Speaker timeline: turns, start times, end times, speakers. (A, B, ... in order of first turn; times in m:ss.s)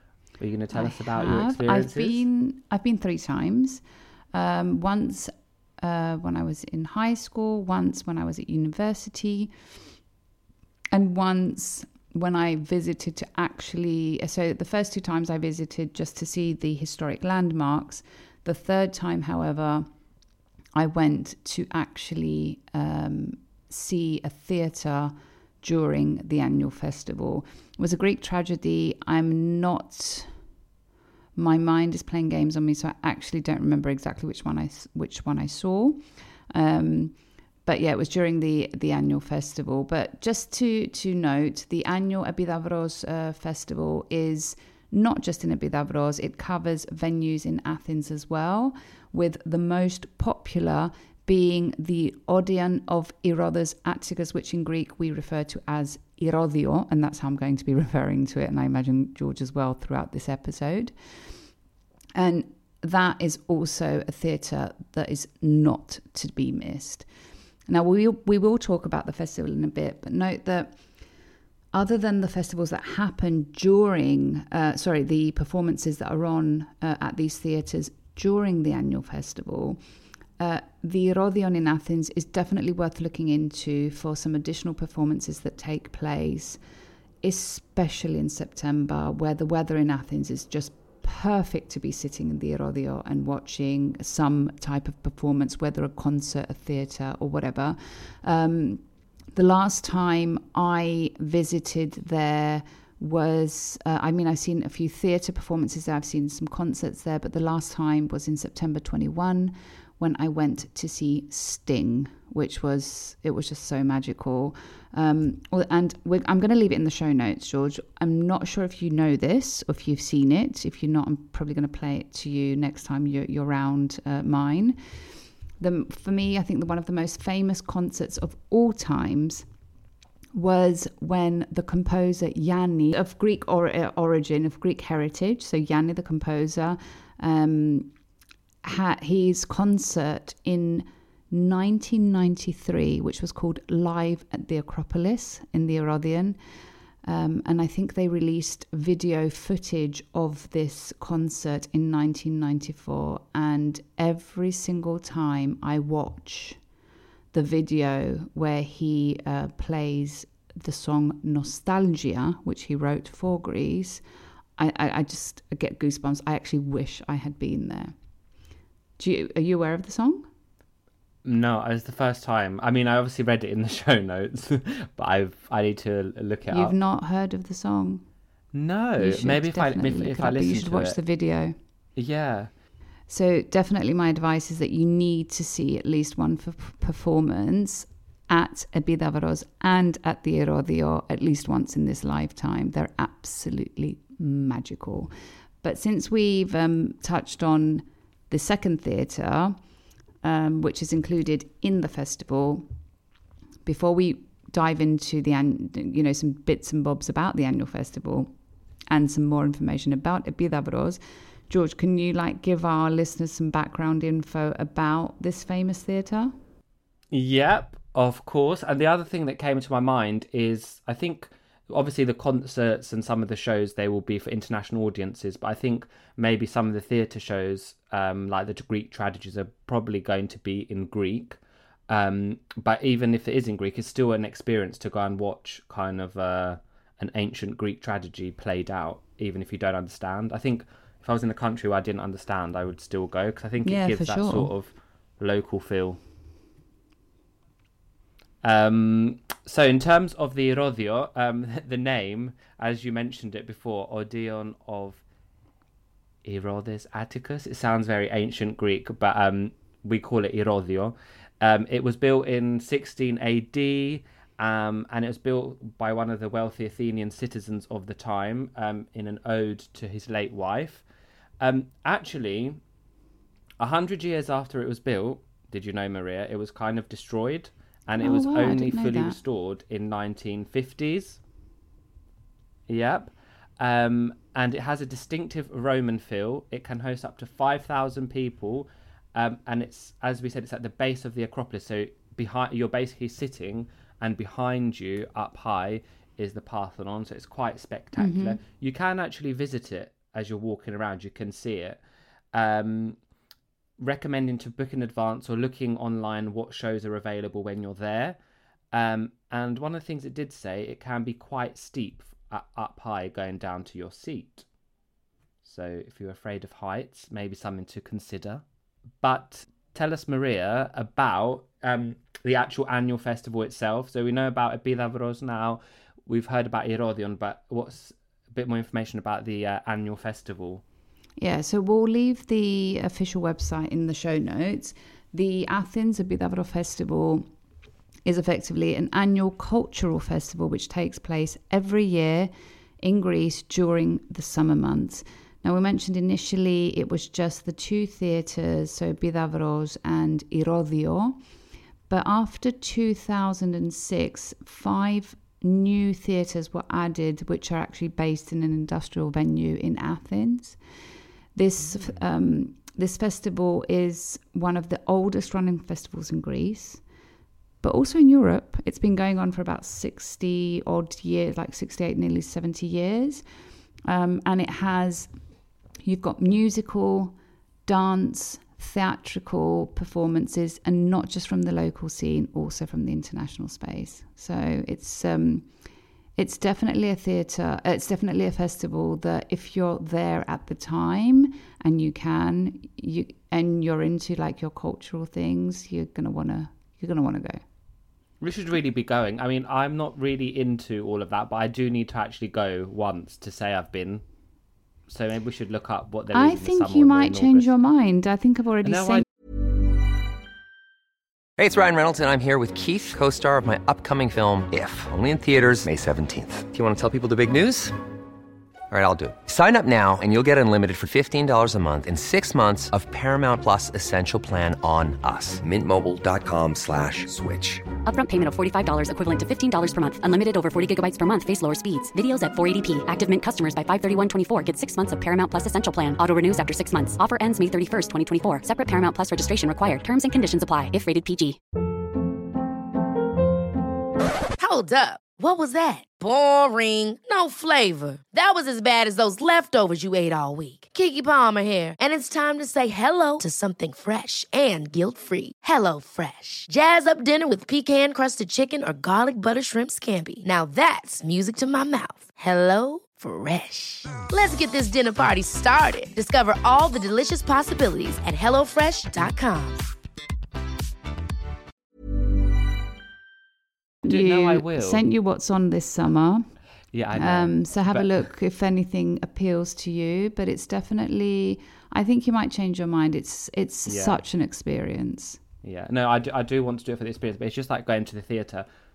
0:00.4-0:02.2 A
0:00.7-0:03.8 B
0:04.3-0:09.5 B
0:10.9-0:19.9 B
0:20.7-0:30.3 B
0:31.4-1:00.9 B
1:02.2-1:07.0 B
1:07.7-1:10.8 B
1:11.7-1:19.8 B
1:20.4-1:26.6 B
1:27.2-2:09.4 B
2:10.3-2:17.9 B
2:18.6-2:26.4 B
2:27.0-2:36.6 B
2:37.3-2:44.0 B
2:44.6-2:47.9 B
2:49.0-2:50.3 B
2:51.2-2:56.7 A
2:56.5-2:58.0 B
2:58.5-3:01.0 A
2:59.0-3:01.5 B
3:02.0-3:02.5 A
3:03.1-3:19.6 B
3:20.2-3:22.7 B
3:23.6-3:28.3 B
3:28.9-3:36.3 B
3:37.1-3:51.4 A
3:51.9-4:06.0 A
4:03.6-4:04.5 B
4:08.4-4:15.0 A
4:16.2-4:30.8 A
4:31.4-4:32.6 A
4:33.6-4:41.2 A
4:38.0-4:39.2 B
4:42.7-5:01.8 A
4:58.0-4:58.4 B
5:02.3-5:03.0 A
5:03.8-5:08.2 A
5:08.7-5:14.4 A
5:15.4-5:18.4 A
5:19.0-5:30.6 A
5:31.2-5:37.3 B
5:38.0-5:51.2 B
5:51.9-6:00.6 B
6:01.3-6:06.8 B
6:01.7-6:02.0 A
6:07.6-6:13.2 B
6:13.9-6:15.1 B
6:15.8-6:25.5 B
6:26.2-6:37.4 B
6:38.2-6:44.0 A
6:44.9-6:47.5 A
6:46.1-6:49.0 B
6:48.6-6:49.0 A
6:51.4-6:57.8 C
6:58.7-7:07.7 C
7:07.8-7:21.4 D
7:24.4-7:49.7 E
7:53.8-7:56.3 B
7:53.8-7:54.8 A
7:56.7-7:58.0 A
7:57.0-8:05.2 B
8:03.6-8:04.0 A
8:05.4-8:08.4 A